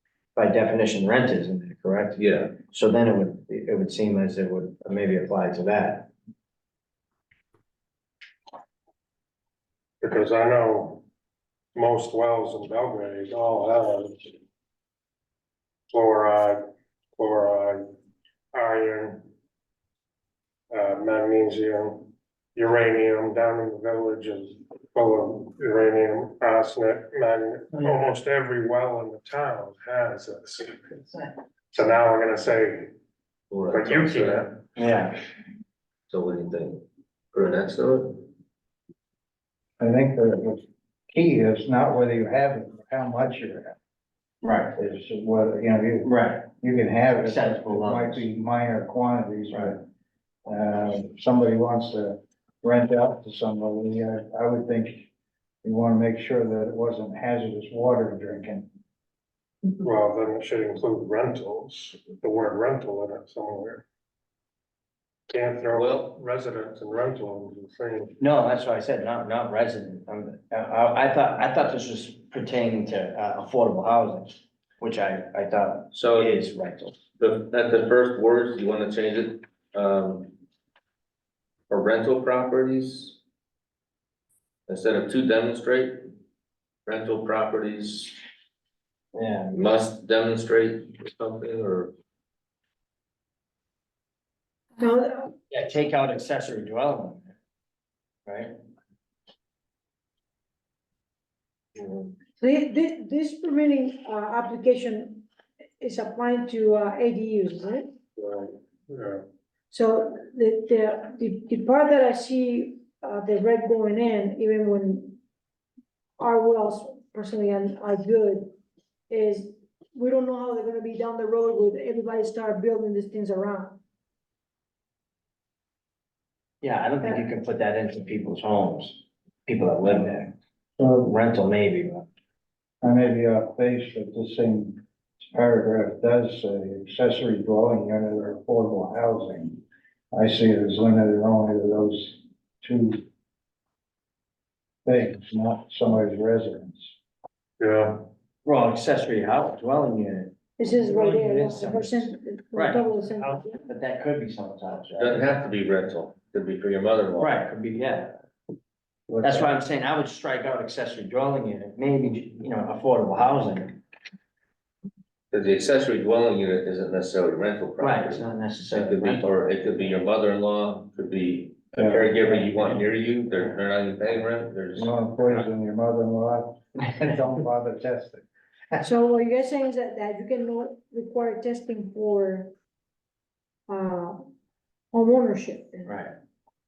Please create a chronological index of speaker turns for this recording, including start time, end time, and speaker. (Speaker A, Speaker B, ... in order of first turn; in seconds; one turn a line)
Speaker A: 0.3-6.1
Speaker B: 2.2-2.5
Speaker C: 10.0-11.0
Speaker C: 11.7-14.3
Speaker C: 15.9-16.6
Speaker C: 17.1-17.9
Speaker C: 18.5-19.3
Speaker C: 20.7-30.8
Speaker C: 31.7-32.9
Speaker B: 33.5-34.5
Speaker C: 33.7-34.6
Speaker A: 34.8-35.2
Speaker B: 36.1-38.3
Speaker D: 39.8-43.8
Speaker A: 44.4-44.7
Speaker D: 44.7-49.8
Speaker A: 46.0-46.5
Speaker A: 47.2-48.3
Speaker D: 50.4-55.1
Speaker D: 55.6-58.7
Speaker C: 59.8-63.8
Speaker C: 65.3-68.1
Speaker B: 65.7-66.1
Speaker A: 68.2-77.0
Speaker B: 75.9-76.5
Speaker B: 77.2-80.3
Speaker B: 81.7-83.2
Speaker B: 84.7-86.0
Speaker B: 86.8-88.2
Speaker A: 89.1-89.6
Speaker B: 89.5-91.9
Speaker E: 94.8-95.3
Speaker A: 95.5-97.3
Speaker A: 98.2-98.5
Speaker E: 102.4-105.3
Speaker E: 105.8-108.0
Speaker C: 108.2-109.2
Speaker E: 109.7-115.2
Speaker E: 116.2-118.5
Speaker E: 119.1-123.8
Speaker A: 126.6-130.3
Speaker D: 130.8-131.1
Speaker A: 131.0-132.1
Speaker D: 132.8-139.6
Speaker D: 140.1-143.0
Speaker D: 144.8-146.9
Speaker C: 147.6-148.1
Speaker A: 148.4-152.9
Speaker E: 150.6-153.6
Speaker A: 153.6-155.3
Speaker B: 155.0-157.3
Speaker A: 157.2-158.2
Speaker D: 159.1-159.5
Speaker A: 159.2-163.8
Speaker B: 165.3-174.9
Speaker A: 167.8-169.2
Speaker D: 171.8-172.1
Speaker D: 174.7-178.2
Speaker E: 178.8-182.5
Speaker E: 183.7-184.3
Speaker E: 184.9-185.9
Speaker A: 185.8-186.1